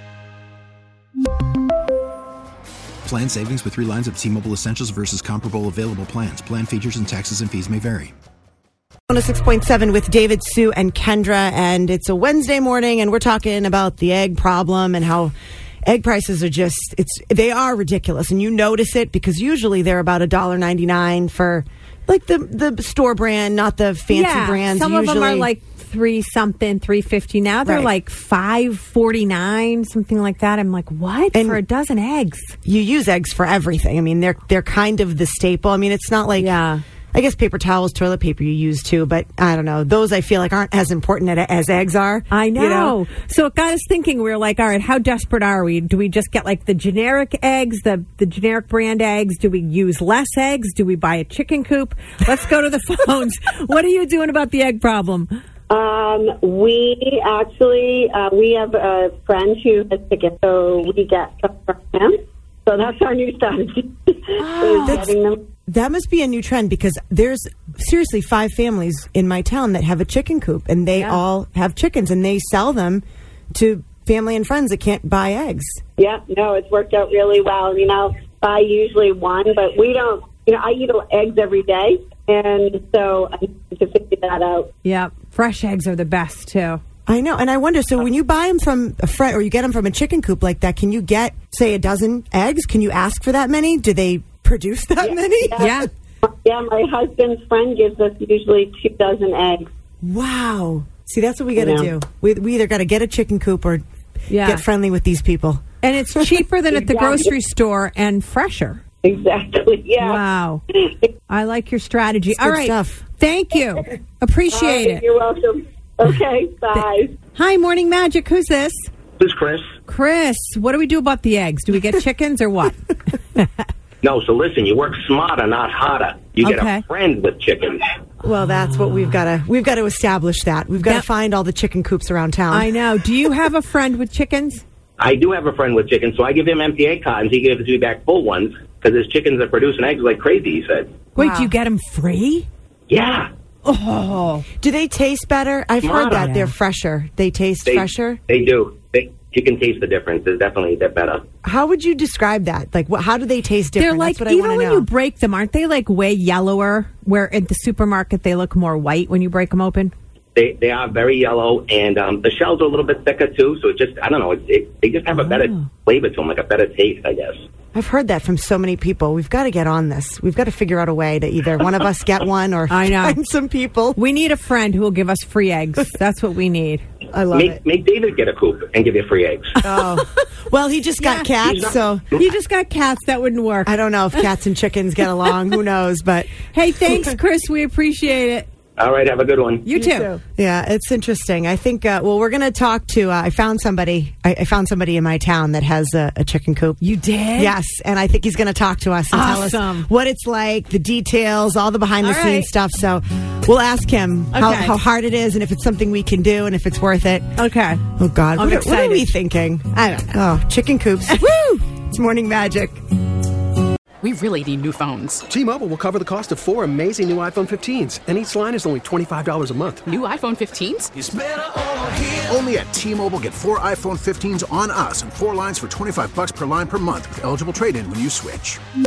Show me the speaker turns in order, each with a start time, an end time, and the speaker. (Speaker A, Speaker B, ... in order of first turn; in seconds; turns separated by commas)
Speaker A: 3.0-8.1, Speaker B: 9.1-15.3, Speaker B: 15.8-25.5, Speaker C: 24.1-32.6, Speaker B: 27.7-27.9, Speaker B: 31.3-31.6, Speaker B: 32.6-36.6, Speaker C: 36.4-36.8, Speaker B: 37.1-43.0, Speaker C: 42.3-55.4, Speaker D: 55.7-65.4, Speaker C: 64.4-65.1, Speaker B: 64.8-65.2, Speaker B: 65.7-75.8, Speaker C: 71.0-71.2, Speaker D: 76.0-84.7, Speaker C: 84.8-86.8, Speaker B: 87.1-95.8, Speaker D: 95.0-99.7, Speaker C: 95.6-95.9, Speaker B: 100.0-103.8, Speaker D: 101.6-101.9, Speaker C: 104.3-104.6, Speaker B: 104.4-105.6, Speaker C: 105.8-108.8, Speaker D: 106.7-107.3, Speaker D: 109.0-111.1, Speaker C: 110.0-110.6, Speaker C: 111.3-115.0, Speaker B: 112.3-113.0, Speaker D: 114.5-117.2, Speaker C: 117.3-118.9, Speaker E: 119.2-119.7, Speaker C: 119.9-123.5, Speaker E: 124.0-127.8, Speaker C: 126.4-126.8, Speaker B: 128.2-132.7, Speaker C: 132.5-134.6, Speaker E: 135.0-140.9, Speaker B: 141.2-141.6, Speaker C: 141.2-142.5, Speaker E: 142.9-143.3, Speaker C: 143.7-144.5, Speaker B: 144.6-148.2, Speaker E: 145.8-146.2, Speaker C: 146.2-146.5, Speaker E: 147.7-151.2, Speaker B: 151.4-154.9, Speaker C: 153.8-159.9, Speaker E: 160.3-167.4, Speaker B: 167.7-174.0, Speaker C: 172.7-173.2, Speaker C: 173.9-176.8, Speaker B: 177.1-177.6, Speaker E: 177.3-179.5, Speaker B: 179.6-182.1, Speaker C: 181.0-181.3, Speaker E: 181.4-182.2, Speaker C: 182.2-184.3, Speaker B: 183.7-186.4, Speaker C: 186.5-188.5, Speaker B: 186.9-187.2, Speaker E: 188.8-189.7, Speaker C: 189.7-190.1, Speaker B: 189.7-196.8, Speaker C: 196.8-197.6, Speaker B: 197.3-207.3, Speaker C: 199.1-199.9, Speaker C: 202.0-202.5, Speaker C: 204.3-204.8, Speaker C: 207.4-209.1, Speaker B: 208.0-212.8, Speaker C: 211.1-211.6, Speaker F: 214.0-215.2, Speaker G: 215.3-219.9, Speaker F: 219.9-220.9, Speaker H: 221.0-228.6